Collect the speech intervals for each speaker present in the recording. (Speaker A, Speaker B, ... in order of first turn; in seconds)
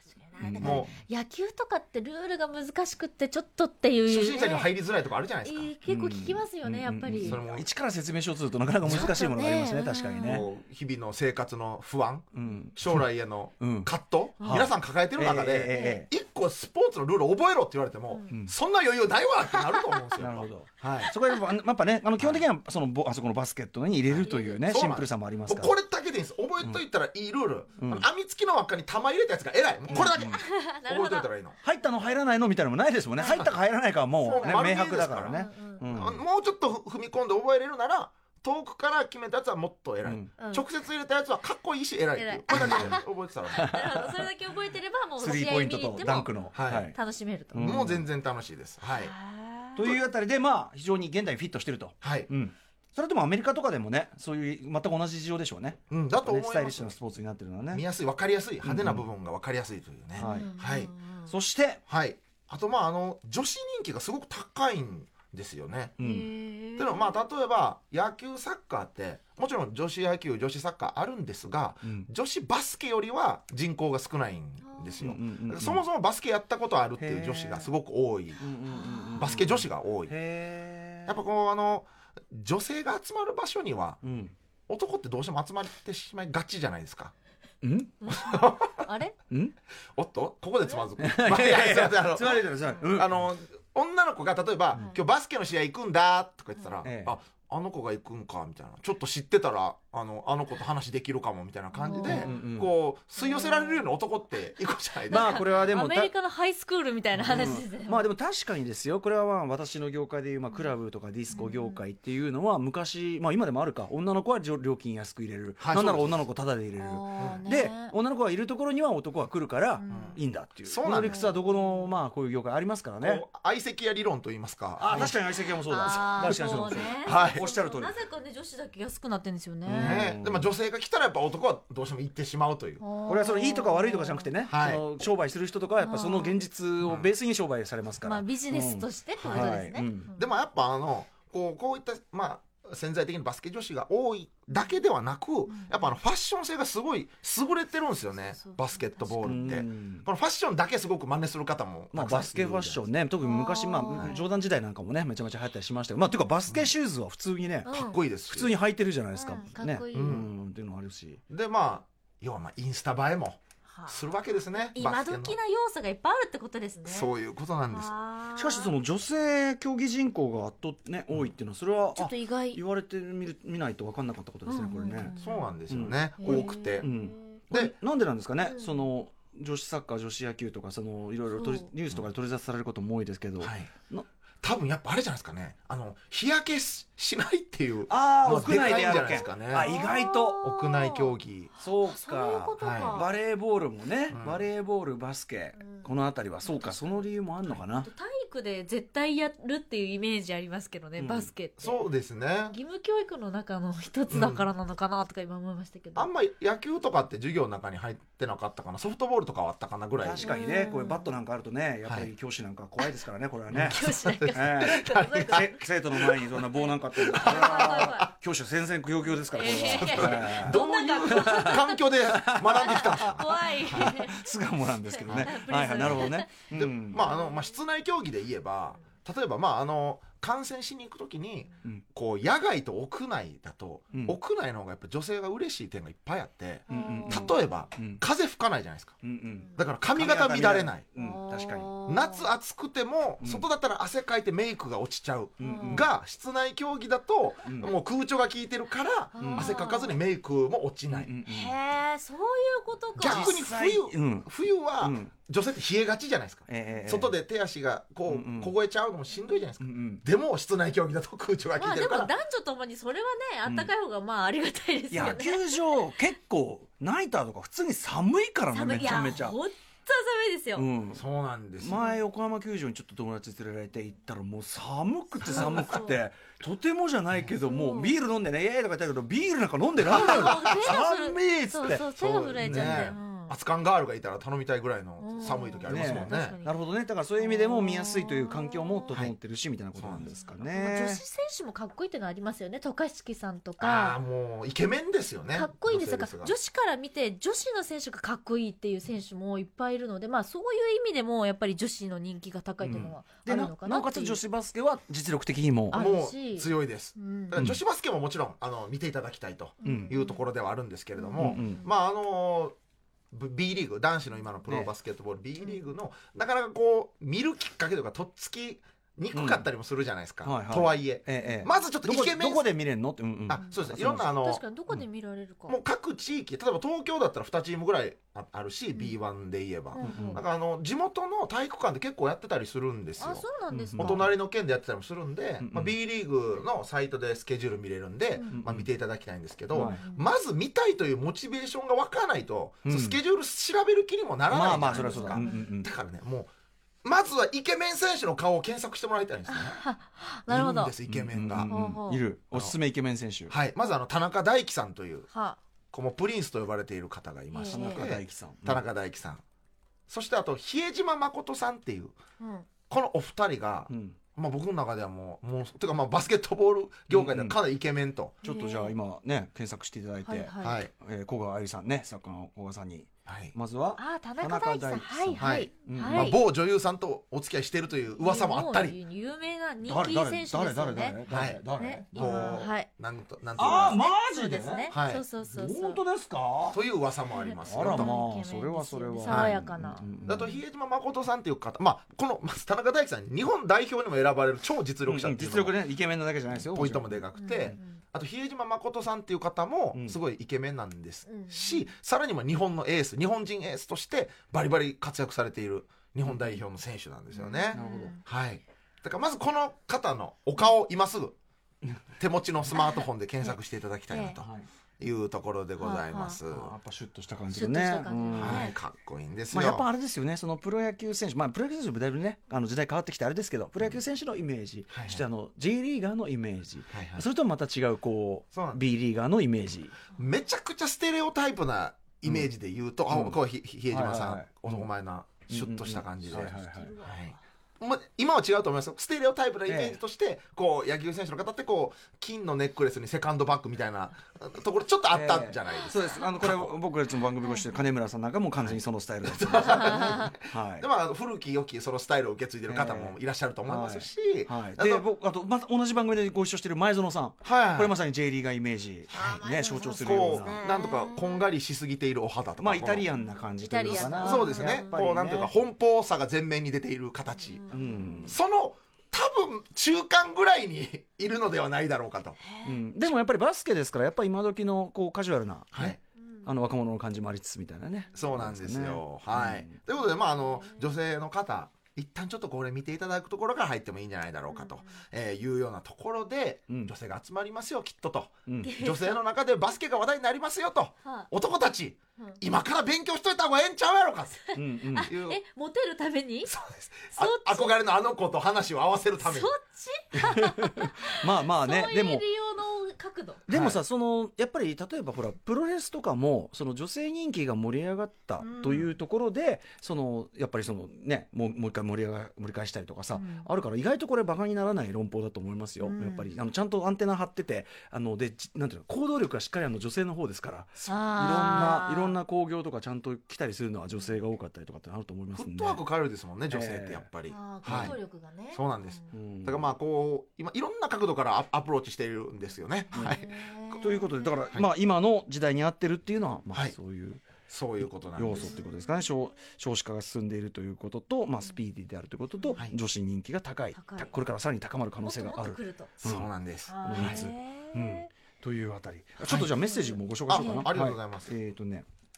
Speaker A: 0.3-4.7, 5.4-7.4, 8.9-10.4, 15.7-16.0, 18.1-18.4, 19.5-20.0, 24.2-24.6, 29.9-31.3, 34.2-34.6, 35.3-35.8, 40.4-40.6, 42.1-47.7, 48.9-49.8, 60.2-61.3, 66.0-67.2, 74.6-75.0, 78.7-79.2, 88.0-89.1, 101.7-102.4, 103.2-103.9, 105.1-108.1, 111.3-111.8, 116.8-117.9, 119.8-120.2, 120.8-121.4, 125.6-130.1, 132.8-134.3, 135.8-136.4, 138.0-140.3, 145.5-145.9, 148.3-149.5, 153.2-154.3, 157.6-158.0, 159.1-160.2, 164.7-167.1, 167.7-168.7, 171.9-172.6, 174.5-175.5, 176.2-177.4, 178.4-178.8, 181.3-181.7, 188.4-191.1, 191.8-193.1, 195.6-195.9, 196.4-197.0, 197.7-201.8, 202.5-206.1, 210.2-211.1, 213.6-215.6, 216.5-218.1, 219.3-224.3, 224.9-226.3, 226.9-227.5, 236.7-237.4, 241.0-242.3, 245.4-245.8, 249.2-250.0, 251.2-253.4, 261.6-265.9, 268.5-270.6, 271.7-272.0, 275.3-276.0, 277.4-277.9, 279.9-283.3, 285.0-286.6, 287.2-288.9, 290.1-294.0, 295.3-304.2, 305.7-307.4, 309.6-310.2, 311.0-311.6, 323.4-325.6, 329.7-330.2, 333.0-334.1, 339.8-340.1, 344.6-345.5, 349.3-350.7, 351.5-352.0, 355.1-355.4, 357.3-357.9, 362.2-362.5, 368.2-368.7, 370.1-370.6, 373.8-376.2, 377.9-381.0, 381.6-382.7, 383.4-385.8, 387.1-389.9, 397.1-397.8, 401.1-401.6, 407.1-408.0, 412.5-413.3, 413.9-414.2, 415.6-416.2, 417.3-418.6, 436.5-437.1, 449.4-450.1, 458.9-461.2, 463.0-464.7, 467.3-468.1, 472.2-472.6, 479.9-480.6, 484.3-484.6, 488.4-489.0, 494.3-496.3, 496.9-497.6, 499.0-503.2, 508.2-508.6, 512.9-513.2, 515.6-516.0, 520.6-521.9, 527.1-528.9, 532.7-534.2, 538.1-538.6, 543.5-543.9, 544.8-545.7, 546.5-547.9, 549.4-550.5
Speaker B: 0.4-0.9, 5.9-10.4, 12.3-13.0, 13.6-13.9, 14.4-16.1, 20.2-25.7, 27.8-28.0, 29.9-30.4, 31.6-36.2, 40.0-40.3, 42.5-42.9, 43.5-44.3, 45.2-47.0, 47.5-48.1, 49.8-57.8, 58.6-59.0, 60.2-60.5, 61.3-61.8, 66.0-66.3, 71.8-72.1, 75.0-75.8, 77.0-77.7, 78.4-81.2, 84.0-84.3, 87.6-87.9, 91.0-93.1, 96.8-97.2, 102.0-102.7, 105.1-106.1, 107.2-123.2, 124.8-127.9, 129.7-130.5, 133.1-140.1, 149.2-150.1, 151.9-157.7, 158.3-161.2, 168.3-175.1, 175.7-184.1, 187.9-190.4, 191.6-197.9, 201.0-201.3, 210.0-227.0, 233.9-234.2, 236.7-238.0, 239.0-241.7, 243.2-243.4, 245.4-245.9, 247.4-247.7, 249.2-249.5, 250.9-251.5, 253.0-254.3, 254.8-255.1, 256.5-257.1, 258.1-258.5, 259.6-260.0, 264.9-269.4, 270.6-271.0, 271.6-281.9, 282.4-282.9, 285.6-291.0, 302.6-305.8, 309.6-309.9, 311.2-311.6, 319.1-319.4, 320.2-324.1, 329.8-330.2, 333.5-334.1, 335.4-335.7, 338.3-338.7, 339.5-339.8, 342.6-343.0, 344.3-345.7, 350.9-353.3, 357.5-358.6, 363.7-364.0, 366.9-367.4, 368.2-376.2, 379.6-382.4, 383.4-384.7, 385.2-386.6, 387.5-390.3, 394.9-397.0, 407.5-407.9, 414.2-414.5, 416.3-418.5, 419.3-429.7, 432.9-433.2, 433.7-434.6, 435.3-436.7, 439.5-439.8, 444.9-450.6, 452.5-460.4, 462.4-465.3, 467.5-468.1, 472.4-479.6, 494.3-494.9, 499.9-502.0, 503.3-525.6, 526.3-526.9, 527.5-527.7, 528.9-529.5, 533.6-546.1, 546.6-551.6
Speaker C: 0.6-0.9, 4.1-5.7, 7.2-7.7, 8.8-9.1, 10.2-21.1, 22.2-22.4, 24.1-31.5, 34.2-43.7, 46.5-46.9, 47.6-49.1, 52.0-52.3, 55.9-57.0, 57.7-60.9, 61.9-66.0, 66.8-78.4, 79.2-80.1, 81.1-84.0, 84.7-87.1, 88.1-88.9, 89.9-105.5, 115.6-116.2, 119.9-121.3, 123.0-125.1, 127.0-127.4, 129.7-132.8, 134.4-134.8, 136.8-137.1, 139.2-139.6, 140.1-152.8, 153.9-154.2, 157.7-158.5, 159.9-160.3, 161.3-165.4, 166.8-167.9, 175.2-176.9, 183.4-183.7, 184.4-189.7, 190.4-191.5, 192.6-193.0, 194.1-194.5, 201.6-202.5, 204.1-204.5, 205.9-210.3, 213.5-216.4, 216.9-218.1, 219.4-224.0, 225.1-239.0, 239.5-240.8, 241.9-251.1, 253.0-262.1, 270.9-271.8, 275.3-275.6, 279.8-280.7, 281.9-286.4, 289.8-290.1, 293.6-296.3, 305.7-312.5, 313.1-322.5, 323.3-324.4, 325.5-333.2, 333.8-346.3, 346.8-349.6, 350.3-351.5, 353.3-355.1, 355.7-359.2, 359.9-362.0, 362.7-368.1, 370.4-370.7, 373.1-373.3, 375.2-378.8, 381.1-381.4, 381.9-383.8, 384.7-385.0, 386.5-387.9, 389.1-389.4, 390.0-395.6, 396.4-411.2, 411.9-416.5, 418.1-419.6, 424.7-425.0, 426.7-427.0, 428.3-428.6, 429.9-446.5, 448.4-454.8, 457.2-457.7, 459.7-462.9, 463.7-467.4, 468.0-472.2, 475.5-475.8, 477.9-495.2, 496.2-499.3, 503.3-503.6, 525.1-527.8, 528.3-533.6, 537.3-538.4, 545.8-547.0, 549.0-549.3, 550.0-551.1